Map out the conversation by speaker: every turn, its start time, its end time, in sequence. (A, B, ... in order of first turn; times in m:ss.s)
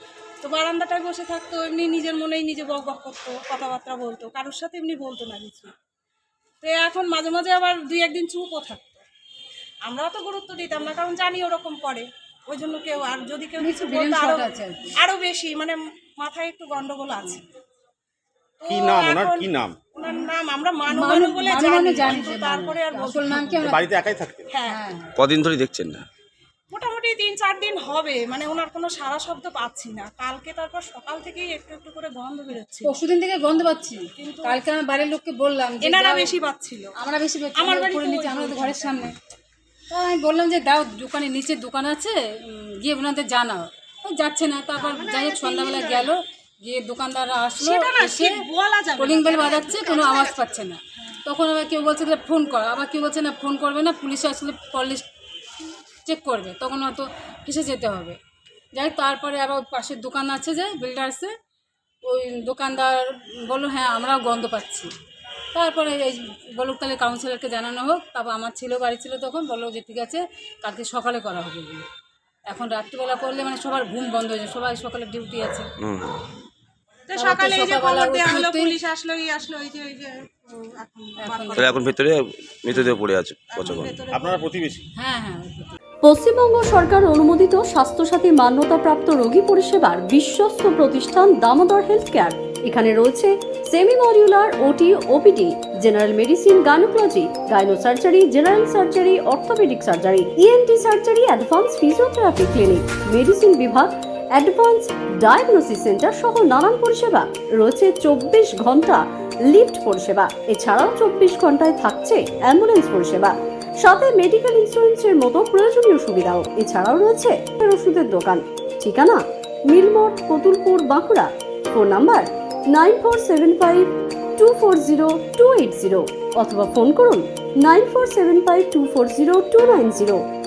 0:00.4-0:05.7 A
0:06.6-0:09.0 A
0:09.8-0:17.4 A
0:13.6-0:14.9 B
0:18.6-0:23.6 A
0:18.7-0:19.8 C
0:20.9-0:23.9 B
0:23.6-0:24.5 C
0:24.5-0:24.8 A
0:24.7-0:25.1 B
0:25.2-0:26.1 D
0:26.7-0:33.0 A
0:32.8-0:36.4 B
0:34.2-0:34.6 A
0:35.8-0:36.9 A
0:37.0-0:39.1 B
0:37.6-0:39.1 A
0:39.9-0:48.3 B
0:44.8-0:46.1 A
0:47.6-0:51.1 A
0:49.0-0:55.1 B
0:56.1-0:58.2 B
0:58.7-1:01.3 B
1:02.1-1:04.9 B
1:05.5-1:11.9 B
1:12.5-1:15.7 B
1:15.8-1:16.1 D
1:17.1-1:21.9 A
1:17.2-1:18.8 B
1:21.2-1:21.8 B
1:21.6-1:23.9 D
1:22.7-1:23.0 B
1:23.5-1:24.6 A
1:24.1-1:24.8 C
1:25.0-1:25.8 B
1:26.0-2:10.2 E